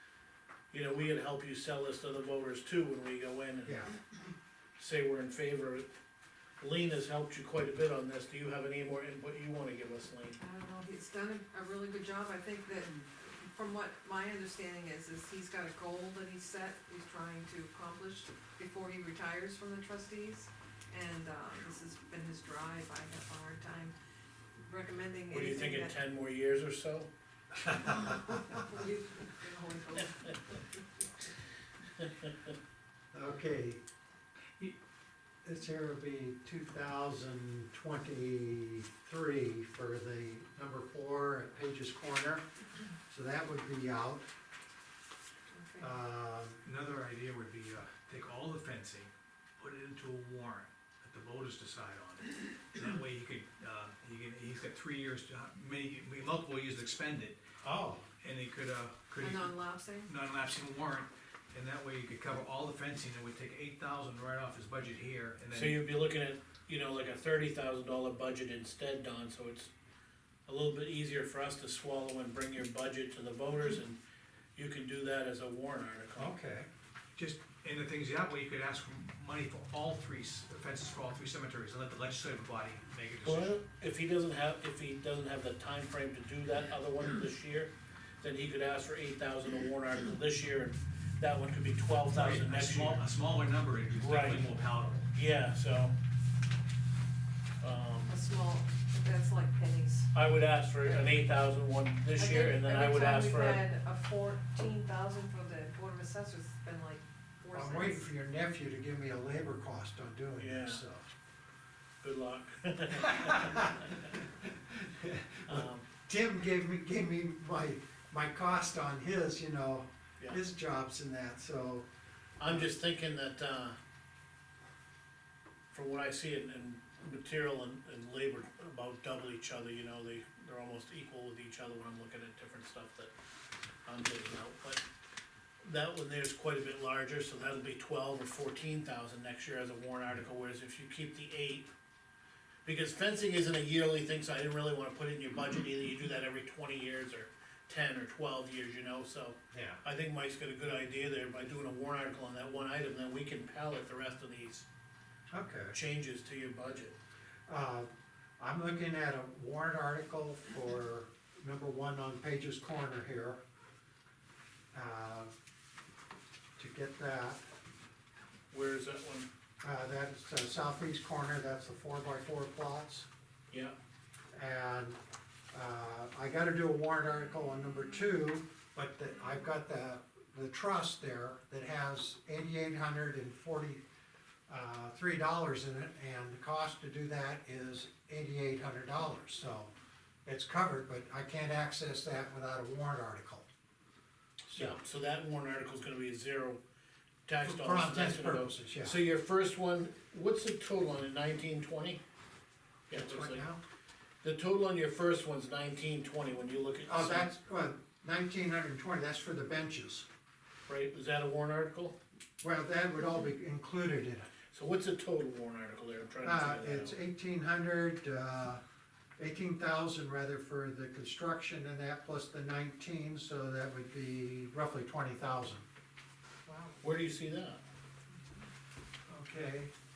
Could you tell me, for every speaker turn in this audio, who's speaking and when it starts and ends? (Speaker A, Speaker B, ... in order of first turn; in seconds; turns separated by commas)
Speaker A: 0.7-3.9, Speaker B: 3.6-3.9, Speaker A: 4.8-5.9, Speaker A: 6.6-10.4, Speaker C: 10.4-23.9, Speaker C: 24.6-25.9, Speaker A: 25.3-27.1, Speaker C: 27.6-30.8, Speaker B: 33.1-33.8, Speaker B: 35.4-42.5, Speaker B: 43.1-44.3, Speaker C: 45.5-45.9, Speaker B: 45.8-46.6, Speaker D: 46.6-57.4, Speaker B: 57.6-58.0, Speaker D: 58.2-65.8, Speaker C: 59.2-60.1, Speaker A: 65.5-69.7, Speaker A: 70.5-74.0, Speaker A: 74.5-76.3, Speaker B: 76.2-76.7, Speaker D: 77.2-83.5, Speaker A: 83.2-93.0, Speaker D: 92.1-95.1, Speaker A: 94.0-94.4, Speaker A: 95.1-95.9, Speaker A: 97.6-98.2, Speaker C: 98.1-100.1, Speaker A: 100.1-103.6, Speaker C: 102.1-108.1, Speaker B: 107.5-111.0, Speaker A: 110.4-110.8, Speaker A: 112.0-113.7, Speaker B: 113.0-121.9, Speaker A: 115.5-115.9, Speaker A: 122.4-123.8, Speaker A: 125.7-133.1, Speaker A: 133.8-134.8, Speaker A: 135.6-141.7, Speaker A: 142.6-154.7, Speaker B: 149.5-149.8, Speaker B: 155.3-155.8, Speaker A: 155.7-156.9, Speaker B: 157.5-163.4, Speaker B: 164.7-165.3, Speaker B: 166.6-167.4, Speaker A: 168.5-169.3, Speaker B: 169.6-173.1, Speaker B: 174.3-175.0, Speaker B: 175.5-183.8, Speaker B: 184.5-189.7, Speaker B: 190.2-193.5, Speaker B: 194.5-194.8, Speaker A: 194.5-196.6, Speaker A: 197.2-202.0, Speaker B: 197.4-199.0, Speaker A: 202.9-203.4, Speaker B: 202.9-203.6, Speaker A: 204.2-207.3, Speaker B: 206.8-210.1, Speaker A: 210.7-212.0, Speaker B: 212.4-214.3, Speaker A: 214.5-217.0, Speaker B: 216.2-218.6, Speaker B: 219.2-225.6, Speaker B: 226.4-226.8, Speaker A: 226.8-227.6, Speaker B: 229.1-229.7